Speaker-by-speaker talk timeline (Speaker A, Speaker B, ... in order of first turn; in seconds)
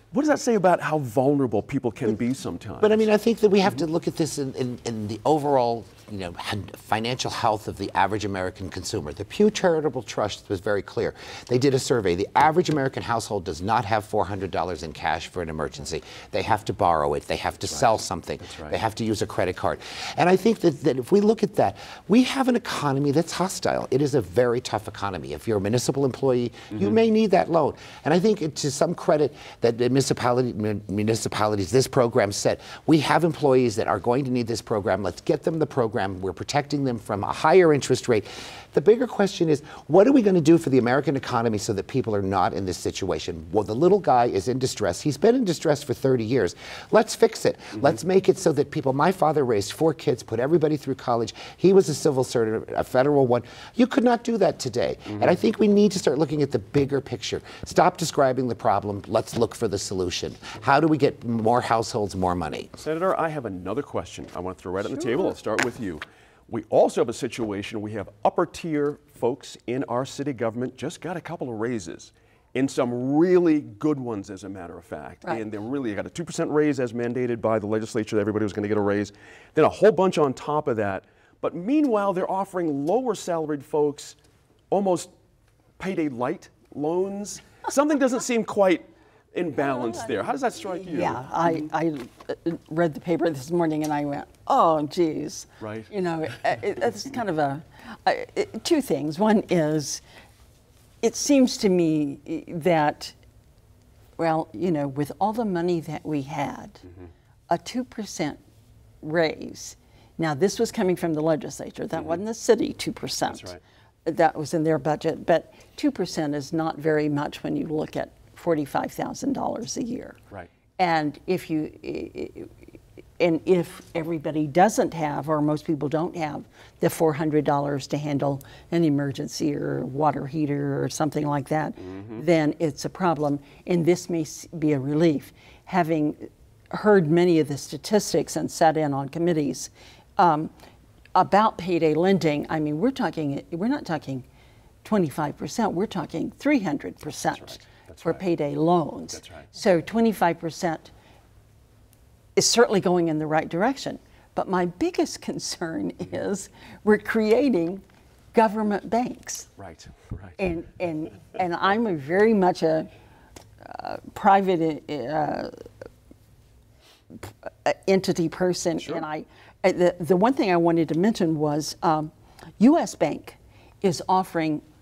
Speaker A: 0.1-3.0, 18.4-18.8, 62.8-84.2, 84.7-85.1, 85.8-91.2, 95.6-95.9, 113.3-113.6, 147.3-148.2, 149.1-149.5, 159.6-160.4
Speaker B: 2.9-62.7
Speaker C: 90.8-100.0, 101.0-103.2, 104.2-106.8, 107.5-108.4, 109.0-113.5, 114.0-120.2, 120.8-122.5, 123.2-140.5, 141.2-144.2, 144.8-150.9, 152.4-157.8, 158.3-159.5, 160.4-162.9, 163.6-165.6, 167.1-174.6